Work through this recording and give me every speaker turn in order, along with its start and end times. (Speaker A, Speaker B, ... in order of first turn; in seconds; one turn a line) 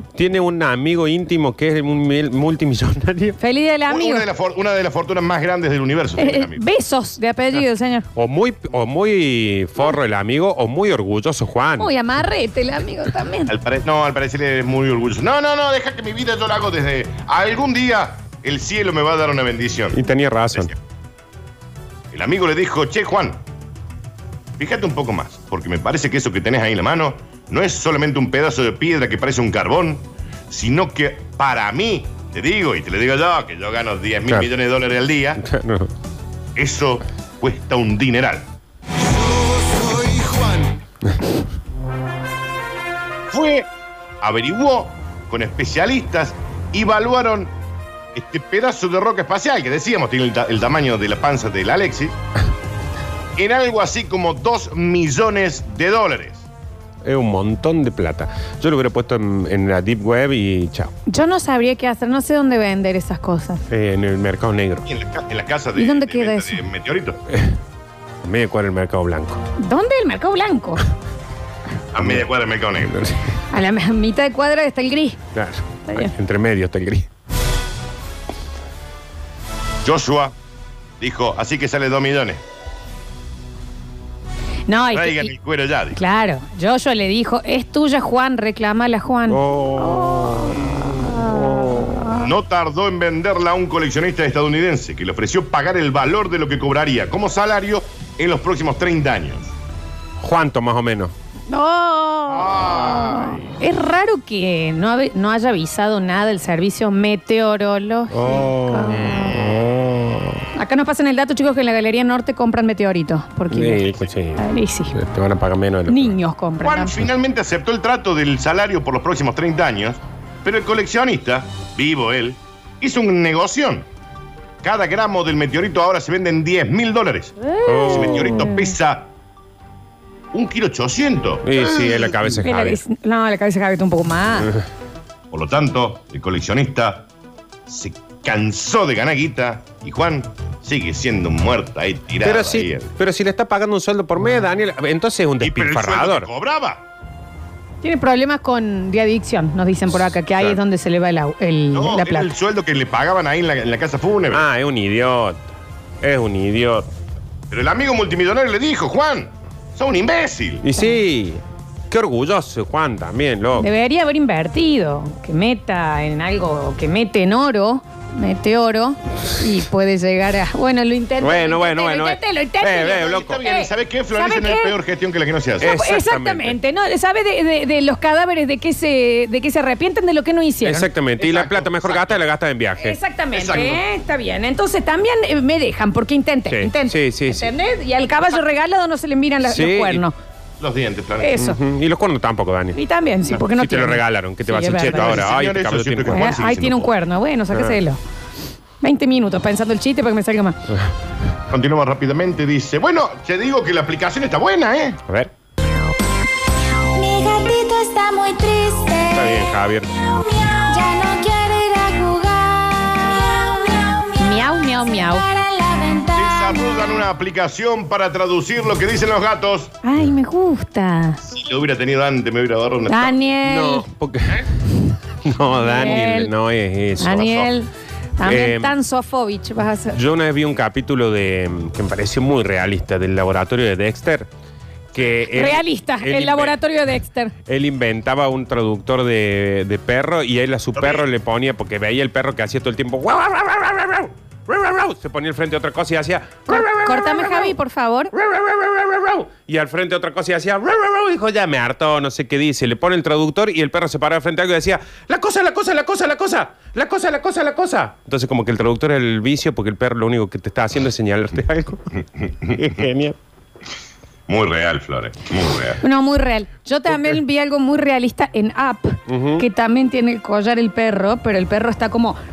Speaker A: 0.1-3.4
Speaker B: 3.4-4.3
Speaker C: 3.9-6.6
Speaker B: 6.2-8.1
Speaker A: 8.2-11.9
Speaker B: 11.8-13.5
Speaker C: 13.5-20.0
Speaker A: 19.9-20.7
Speaker C: 22.1-23.4
Speaker C: 24.6-35.4
Speaker A: 35.4-35.9
Speaker C: 36.6-38.5
Speaker C: 39.0-40.8
Speaker C: 43.3-43.7
Speaker C: 44.2-47.5
Speaker C: 48.1-52.2
Speaker C: 53.4-56.5
Speaker A: 57.0-60.9
Speaker B: 61.1-63.6
Speaker A: 63.7-64.9
Speaker C: 64.9-67.2
Speaker B: 65.8-66.6
Speaker A: 68.2-69.4
Speaker B: 69.6-70.8
Speaker C: 71.9-72.9
Speaker A: 72.0-72.3
Speaker A: 72.8-73.2
Speaker B: 73.5-75.2
Speaker A: 75.3-77.1
Speaker C: 79.8-80.3
Speaker C: 81.0-82.4
Speaker B: 84.7-85.3
Speaker C: 84.9-86.0
Speaker B: 86.0-90.6
Speaker A: 89.3-92.1
Speaker C: 92.1-99.5
Speaker A: 100.2-101.1
Speaker B: 101.5-109.3
Speaker C: 102.3-103.5
Speaker A: 108.1-110.4
Speaker B: 110.5-115.0
Speaker A: 113.5-116.2
Speaker B: 115.9-117.0
Speaker C: 116.6-123.9
Speaker C: 124.6-129.1
Speaker A: 127.7-128.6
Speaker C: 130.3-132.4
Speaker A: 131.4-132.8
Speaker B: 132.4-134.5
Speaker C: 135.3-137.1
Speaker C: 137.7-142.9
Speaker A: 142.2-146.3
Speaker C: 145.4-146.9
Speaker B: 147.8-152.3
Speaker C: 151.7-154.4
Speaker A: 154.3-155.5
Speaker A: 156.0-156.9
Speaker C: 157.5-160.7
Speaker A: 160.6-163.7
Speaker B: 163.6-174.8
Speaker A: 171.2-173.4
Speaker C: 172.7-175.7
Speaker A: 175.6-176.6
Speaker B: 175.6-180.9
Speaker A: 180.7-183.0
Speaker C: 181.2-182.2
Speaker B: 182.8-190.1
Speaker C: 183.3-183.8
Speaker A: 186.5-187.5
Speaker A: 189.4-190.0
Speaker C: 190.6-191.4
Speaker B: 191.2-191.6
Speaker A: 191.4-192.8
Speaker B: 192.7-195.3
Speaker A: 193.4-196.3
Speaker C: 194.8-196.9
Speaker B: 196.1-198.0
Speaker A: 197.5-197.8
Speaker B: 198.8-200.6
Speaker C: 201.5-205.0
Speaker D: 206.9-217.1
Speaker A: 209.1-209.9
Speaker B: 214.2-215.3
Speaker C: 216.2-219.8
Speaker B: 219.8-221.2
Speaker C: 221.3-223.2
Speaker B: 222.9-223.9
Speaker A: 223.4-224.7
Speaker A: 225.2-227.5
Speaker B: 225.6-226.3
Speaker B: 227.0-230.0
Speaker A: 228.2-228.8
Speaker A: 229.9-234.3
Speaker A: 234.9-236.6
Speaker B: 235.3-237.3
Speaker A: 237.5-247.5
Speaker C: 240.8-241.1
Speaker B: 246.5-248.1
Speaker A: 248.1-261.9
Speaker C: 262.2-262.7
Speaker A: 262.5-263.2
Speaker C: 264.3-265.8
Speaker B: 265.8-272.2
Speaker A: 269.1-269.4